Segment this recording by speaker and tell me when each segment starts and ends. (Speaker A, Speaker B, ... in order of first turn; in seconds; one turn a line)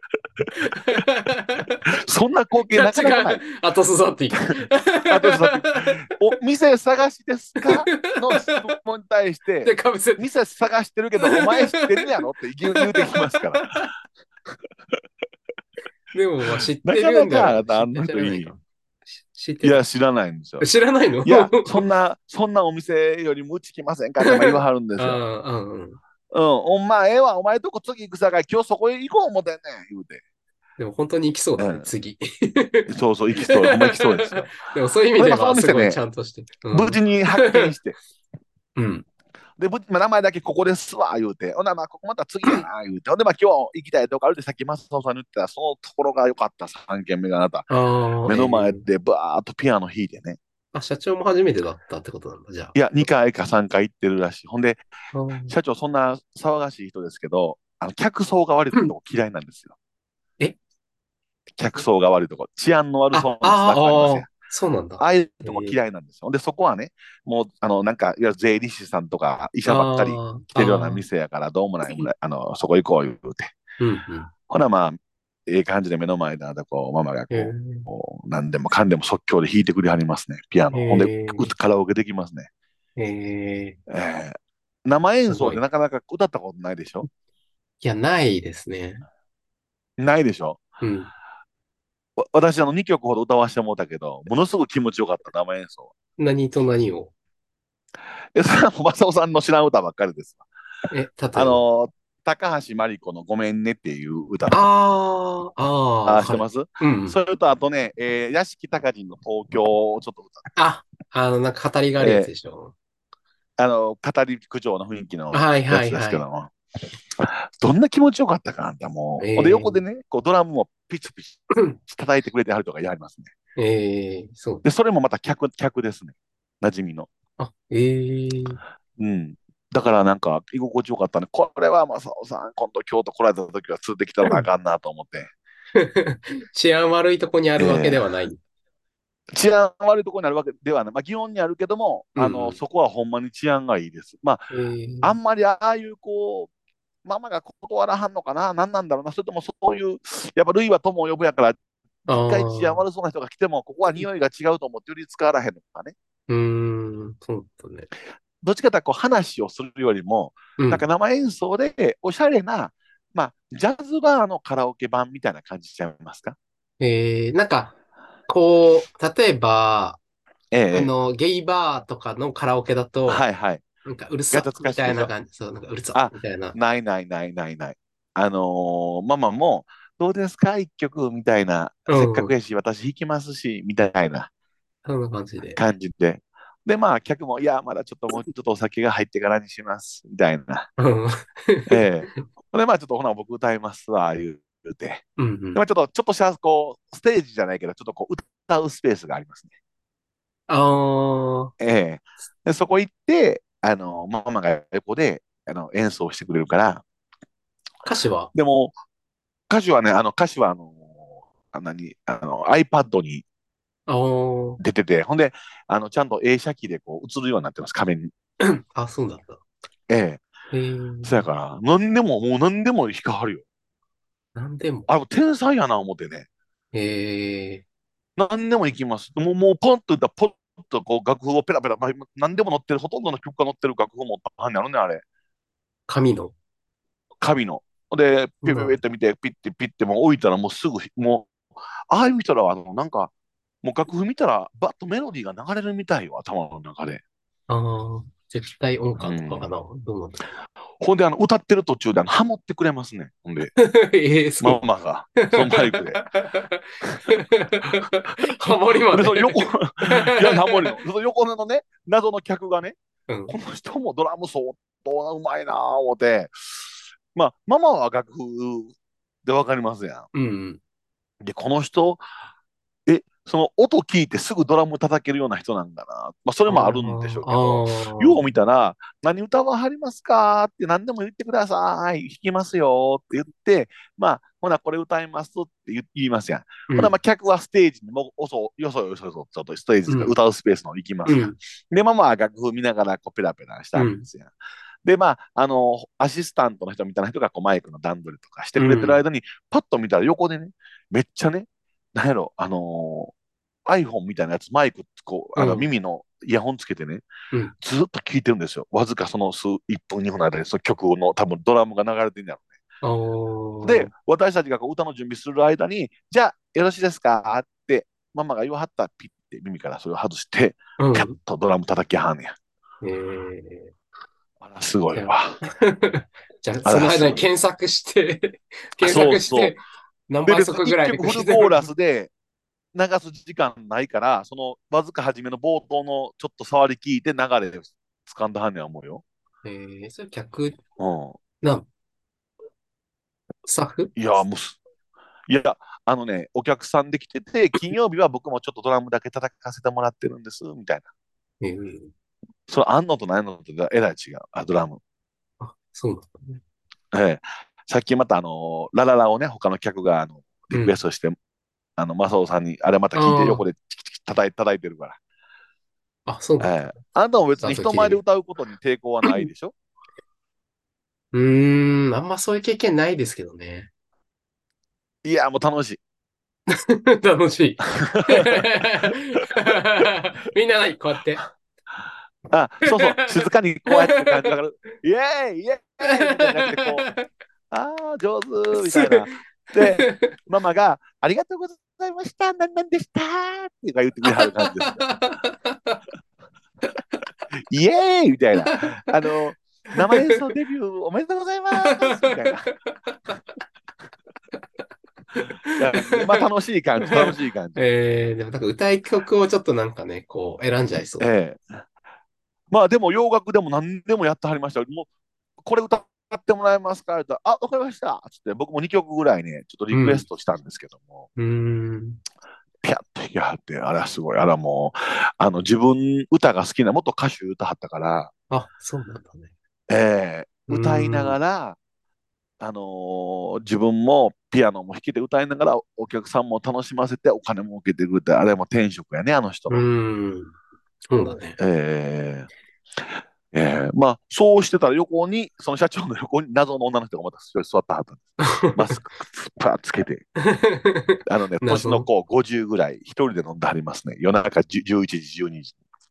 Speaker A: 0.6-1.9
Speaker B: 1.9-3.4
Speaker A: 2.7-6.1
Speaker B: 5.1-13.7
Speaker A: 7.6-8.7
Speaker A: 9.7-10.3
Speaker A: 11.2-13.9
Speaker A: 16.1-18.6
Speaker B: 16.8-18.5
Speaker A: 19.1-19.8
Speaker B: 19.6-20.7
Speaker A: 20.6-21.9
Speaker B: 21.2-25.2
Speaker A: 24.2-26.0
Speaker B: 26.3-30.2
Speaker A: 30.8-37.7
Speaker B: 31.6-31.9
Speaker B: 32.9-34.5
Speaker B: 35.2-36.0
Speaker B: 36.7-38.0
Speaker A: 38.8-39.1
Speaker B: 39.6-47.7
Speaker A: 47.7-48.9
Speaker B: 48.3-50.4
Speaker A: 50.7-52.8
Speaker B: 52.8-54.8
Speaker A: 55.1-55.5
Speaker B: 55.5-59.8
Speaker B: 61.6-64.3
Speaker A: 63.1-65.8
Speaker B: 65.0-73.5
Speaker A: 69.7-71.0
Speaker A: 73.8-74.3
Speaker B: 74.5-82.5
Speaker A: 77.3-77.9
Speaker A: 80.7-81.5
Speaker A: 83.0-83.8
Speaker B: 83.9-87.1
Speaker A: 85.3-85.6
Speaker A: 87.8-89.0
Speaker B: 90.0-90.6
Speaker A: 90.8-91.1
Speaker B: 92.2-95.9
Speaker A: 96.2-97.1
Speaker B: 98.3-100.4
Speaker A: 100.9-101.6
Speaker B: 101.3-104.7
Speaker A: 104.5-107.2
Speaker B: 106.1-110.4
Speaker A: 110.6-112.7
Speaker B: 112.0-112.3
Speaker B: 113.6-116.5
Speaker A: 115.3-116.2
Speaker B: 117.2-123.3
Speaker A: 119.2-119.8
Speaker A: 123.6-124.7
Speaker B: 124.6-127.1
Speaker A: 127.4-128.6
Speaker B: 129.0-135.3
Speaker A: 135.8-138.4
Speaker B: 137.6-138.0
Speaker B: 139.3-144.5
Speaker A: 142.2-142.6
Speaker A: 144.5-145.2
Speaker B: 145.0-146.5
Speaker B: 147.1-155.9
Speaker A: 152.1-152.8
Speaker A: 156.3-157.9
Speaker B: 158.4-166.4
Speaker A: 160.6-160.9
Speaker A: 166.8-167.7
Speaker A: 168.3-170.0
Speaker B: 170.5-170.9
Speaker A: 170.7-173.2
Speaker B: 173.1-173.6
Speaker A: 173.8-176.6
Speaker B: 174.3-175.1
Speaker B: 175.9-184.3
Speaker A: 181.9-182.3
Speaker A: 184.8-185.6
Speaker B: 185.6-190.7
Speaker A: 190.8-192.2
Speaker B: 191.7-199.5
Speaker A: 195.2-195.6
Speaker A: 200.5-201.5
Speaker B: 201.6-206.8
Speaker A: 207.8-208.3
Speaker B: 208.3-208.7
Speaker B: 209.5-213.2
Speaker A: 213.9-214.6
Speaker B: 214.6-218.1
Speaker A: 218.4-219.4
Speaker B: 219.9-220.2
Speaker A: 220.5-221.2
Speaker B: 221.0-223.4
Speaker A: 224.3-224.9
Speaker B: 224.9-226.3
Speaker A: 226.7-227.6
Speaker B: 228.2-235.0
Speaker A: 235.9-236.3
Speaker B: 237.2-241.3
Speaker A: 238.4-238.8
Speaker B: 241.9-243.1
Speaker B: 243.6-247.0
Speaker A: 247.5-250.3
Speaker B: 249.0-249.5
Speaker B: 250.8-253.5
Speaker A: 253.6-254.6
Speaker B: 254.4-256.0
Speaker A: 255.2-260.8
Speaker B: 258.9-262.8
Speaker A: 263.1-263.4
Speaker B: 263.3-268.7
Speaker B: 269.2-270.1
Speaker A: 270.1-270.6
Speaker B: 271.2-272.0
Speaker B: 272.9-294.3
Speaker A: 276.5-278.2
Speaker A: 286.7-286.9
Speaker A: 289.9-290.1
Speaker A: 291.1-291.4
Speaker A: 293.7-294.1
Speaker B: 294.9-303.1
Speaker A: 298.6-299.0
Speaker B: 303.7-307.1
Speaker A: 305.4-305.7
Speaker B: 307.6-312.5
Speaker A: 312.8-313.9
Speaker B: 313.6-322.3
Speaker A: 320.8-321.1
Speaker A: 322.8-323.7
Speaker B: 324.4-325.4
Speaker A: 324.9-331.7
Speaker B: 326.6-327.2
Speaker B: 328.8-329.6
Speaker B: 330.3-332.1
Speaker B: 332.7-339.0
Speaker A: 339.4-340.6
Speaker B: 340.8-341.2
Speaker A: 341.4-341.7
Speaker A: 343.5-343.9
Speaker B: 344.0-344.6
Speaker B: 345.3-350.9
Speaker A: 351.4-351.9
Speaker B: 352.5-354.8
Speaker A: 355.4-356.4
Speaker B: 356.9-361.2
Speaker B: 361.8-365.0
Speaker A: 362.9-363.4
Speaker A: 366.1-366.8
Speaker B: 366.4-369.5
Speaker A: 367.4-368.0
Speaker A: 371.1-373.7
Speaker B: 375.0-375.8
Speaker A: 376.5-381.2
Speaker B: 377.8-378.9
Speaker B: 382.3-386.9
Speaker A: 382.6-384.3
Speaker A: 385.8-387.1
Speaker B: 387.5-394.9
Speaker A: 388.6-390.1
Speaker A: 394.1-395.8
Speaker B: 397.5-402.5
Speaker A: 398.4-398.7
Speaker A: 399.8-400.2
Speaker A: 401.5-403.2
Speaker A: 405.1-406.2
Speaker B: 405.6-407.6
Speaker A: 406.8-411.1
Speaker B: 411.0-411.6
Speaker B: 412.5-414.9
Speaker B: 415.4-421.1
Speaker A: 419.7-420.1
Speaker A: 421.2-422.0
Speaker B: 422.6-428.1
Speaker A: 428.3-429.3
Speaker B: 429.7-431.6
Speaker A: 430.5-431.2
Speaker B: 432.4-439.6
Speaker A: 439.5-440.4
Speaker A: 440.9-441.4
Speaker B: 441.4-450.1
Speaker A: 448.2-448.8
Speaker A: 450.2-451.9
Speaker B: 451.1-455.6